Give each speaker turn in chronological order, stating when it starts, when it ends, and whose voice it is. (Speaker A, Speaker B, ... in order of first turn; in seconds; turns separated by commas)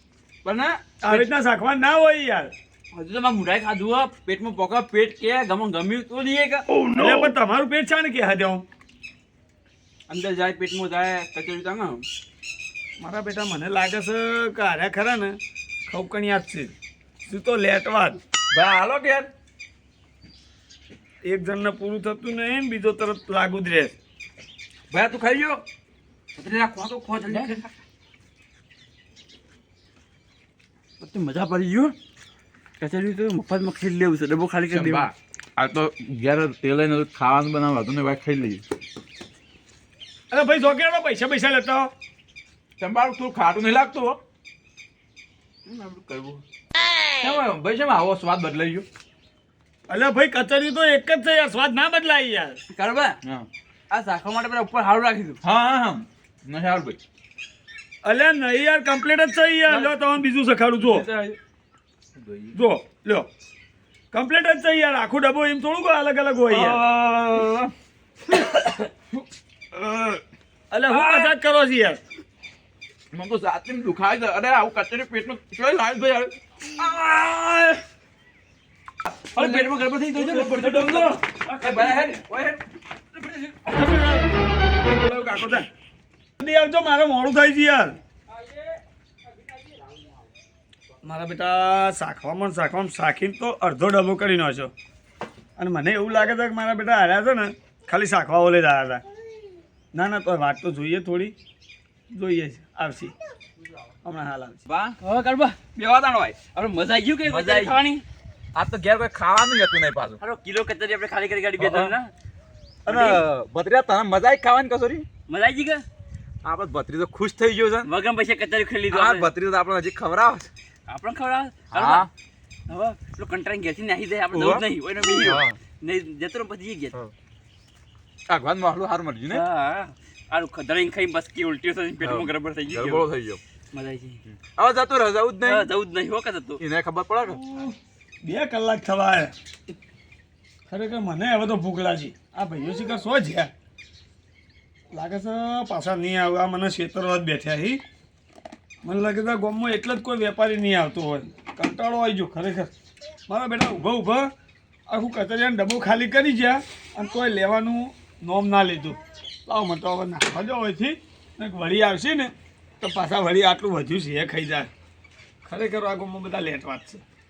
Speaker A: 0.5-1.3, Speaker B: 1.0-2.5, Speaker A: 2.9-6.7, Speaker B: 6.9-8.6, Speaker A: 10.1-12.1, Speaker B: 13.0-16.7, Speaker B: 17.3-18.2, Speaker C: 18.5-19.3, Speaker B: 21.2-23.9, Speaker C: 24.9-25.6, Speaker A: 26.4-27.6, Speaker C: 26.6-27.7, Speaker A: 31.0-31.9, Speaker A: 32.8-35.1, Speaker C: 34.7-38.6, Speaker B: 40.3-41.9, Speaker C: 42.8-44.2, Speaker C: 45.7-46.4, Speaker C: 47.2-48.9, Speaker B: 49.9-52.6, Speaker A: 52.7-53.2, Speaker C: 53.2-53.5, Speaker A: 53.9-55.4, Speaker C: 55.4-57.0, Speaker B: 58.0-61.1, Speaker C: 59.7-60.0, Speaker C: 60.8-61.4, Speaker C: 62.2-62.6, Speaker B: 62.5-63.3, Speaker B: 64.1-66.8, Speaker C: 66.5-67.7, Speaker C: 69.7-70.2, Speaker B: 70.7-72.0, Speaker C: 73.1-77.8, Speaker A: 79.3-82.0, Speaker C: 79.3-82.6, Speaker A: 83.2-83.8, Speaker B: 83.7-84.3, Speaker B: 84.8-85.7, Speaker B: 86.4-88.0, Speaker B: 91.0-94.7, Speaker B: 95.6-99.0, Speaker B: 99.9-101.3, Speaker B: 102.1-103.1, Speaker B: 104.0-104.6, Speaker C: 104.7-105.0, Speaker A: 105.0-105.6, Speaker C: 105.8-106.4, Speaker A: 106.4-108.0, Speaker C: 107.2-107.8, Speaker C: 108.5-110.2, Speaker A: 110.2-112.1, Speaker C: 111.6-111.9, Speaker C: 112.9-115.1, Speaker A: 112.9-113.2, Speaker A: 115.3-115.8, Speaker C: 116.4-117.9, Speaker A: 117.8-119.3, Speaker C: 118.9-120.5, Speaker A: 120.9-122.1, Speaker C: 121.7-122.1, Speaker A: 122.7-126.9, Speaker C: 124.3-124.6, Speaker C: 125.2-125.5, Speaker C: 128.3-129.4, Speaker A: 129.3-133.1, Speaker C: 132.0-133.4, Speaker A: 133.7-134.2, Speaker C: 134.2-135.7, Speaker A: 135.4-136.6, Speaker C: 136.6-137.4, Speaker B: 137.2-139.3, Speaker B: 140.7-143.5, Speaker B: 144.9-147.8, Speaker B: 148.8-152.7, Speaker B: 153.3-154.3, Speaker B: 154.9-164.7, Speaker B: 165.4-167.0